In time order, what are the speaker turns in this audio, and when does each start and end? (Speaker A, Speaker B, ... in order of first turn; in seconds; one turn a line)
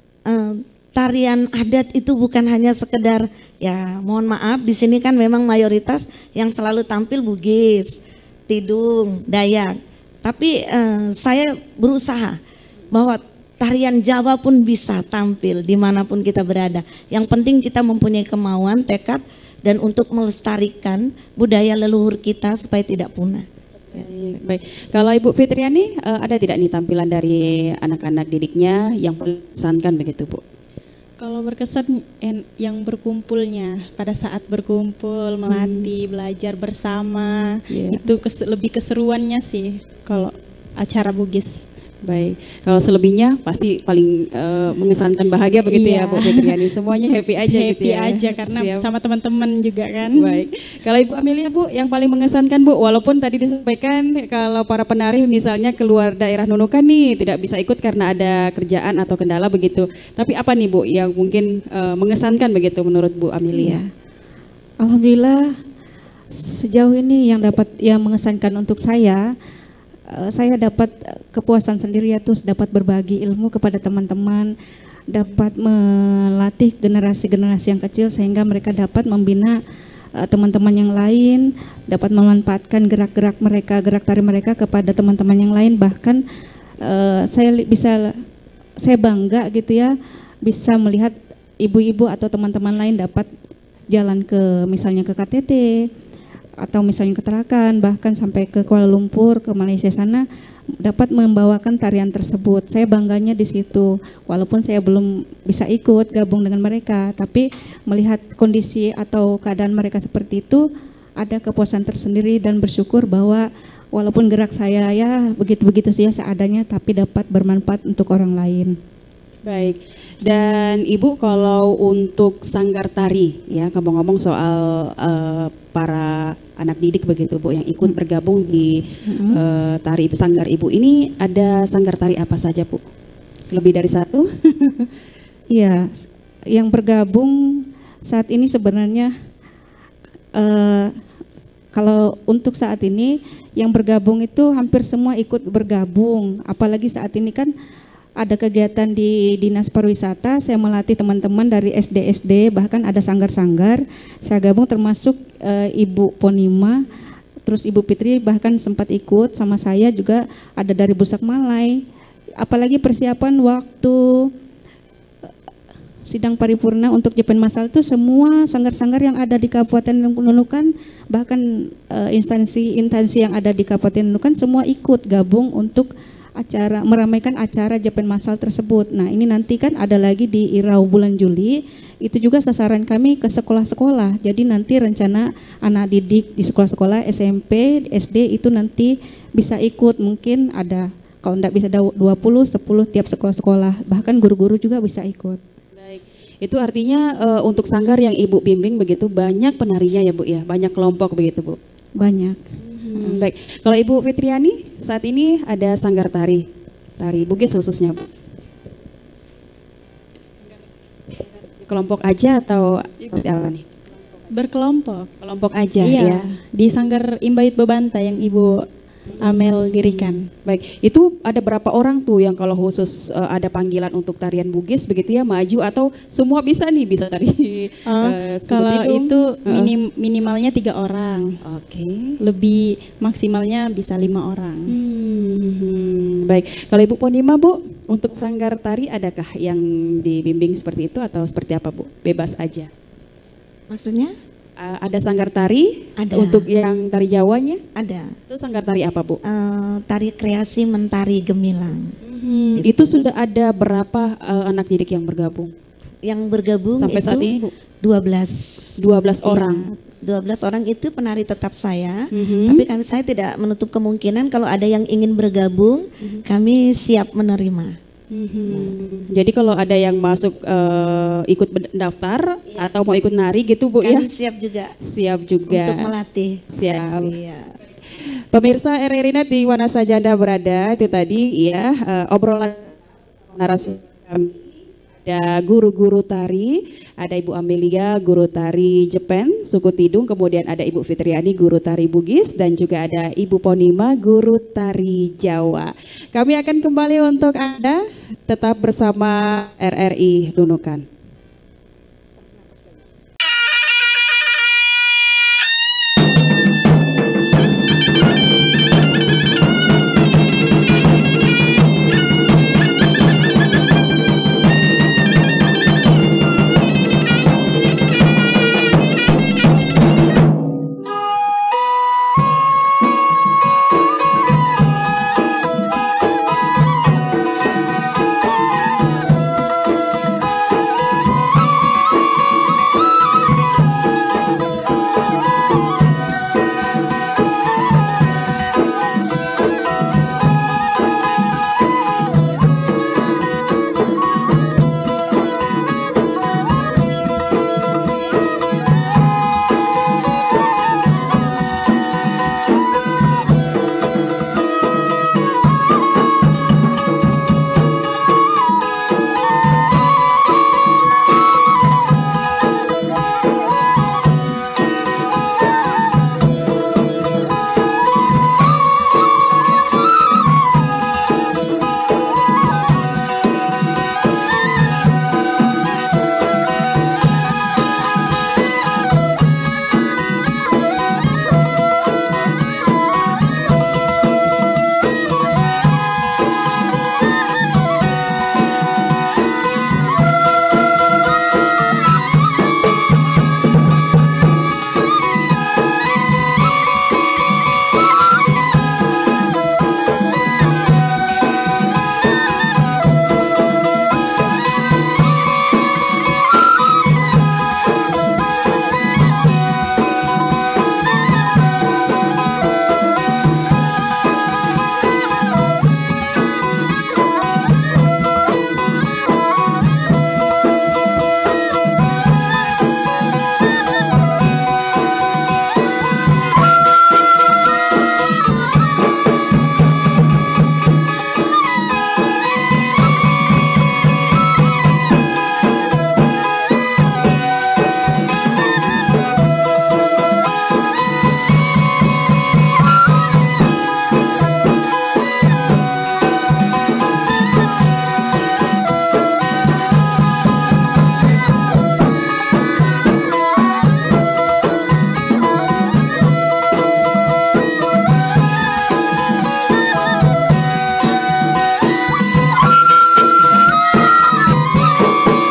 Speaker A: 0.3-12.4
Speaker A: 12.9-23.4
Speaker B: 23.9-30.4
Speaker C: 31.2-41.6
Speaker B: 35.5-35.9
Speaker B: 37.7-38.0
Speaker B: 42.0-48.9
Speaker C: 45.6-50.4
Speaker B: 50.1-63.8
Speaker D: 63.5-63.9
Speaker D: 64.8-65.5
Speaker D: 66.3-69.2
Speaker D: 70.1-74.5
Speaker D: 75.1-79.6
Speaker D: 80.2-86.2
Speaker D: 86.8-88.2
Speaker D: 88.8-89.9
Speaker D: 90.4-93.3
Speaker D: 93.9-95.7
Speaker D: 96.6-100.2
Speaker D: 100.8-110.6
Speaker D: 111.2-118.7
Speaker B: 119.5-132.8
Speaker D: 129.1-129.4
Speaker B: 133.5-134.9
Speaker D: 135.5-139.1
Speaker D: 140.3-140.9
Speaker D: 141.7-147.5
Speaker D: 148.2-156.8
Speaker D: 157.4-161.8
Speaker D: 162.4-164.3
Speaker D: 166.1-195.4
Speaker B: 195.8-201.6
Speaker D: 202.0-202.4
Speaker B: 202.6-206.4
Speaker B: 207.0-208.1
Speaker B: 211.6-213.6
Speaker C: 214.3-215.1
Speaker B: 215.2-216.2
Speaker C: 215.8-218.6
Speaker B: 219.1-229.7
Speaker C: 219.2-220.2
Speaker C: 227.9-231.3
Speaker B: 231.4-232.2
Speaker C: 232.2-234.7
Speaker B: 234.7-242.7
Speaker A: 243.7-244.1
Speaker B: 244.6-247.6
Speaker A: 246.0-246.5
Speaker A: 247.7-248.1
Speaker B: 248.3-249.2
Speaker A: 249.2-251.9
Speaker B: 252.0-255.5
Speaker A: 256.0-257.3
Speaker B: 256.8-257.5
Speaker A: 257.8-267.8
Speaker B: 258.8-259.6
Speaker B: 262.1-262.6
Speaker B: 268.1-274.1
Speaker A: 268.5-268.7
Speaker A: 273.8-274.7
Speaker B: 274.8-275.9
Speaker A: 275.5-277.5
Speaker B: 276.5-277.1
Speaker B: 278.0-282.7
Speaker B: 283.3-284.4
Speaker B: 285.0-300.8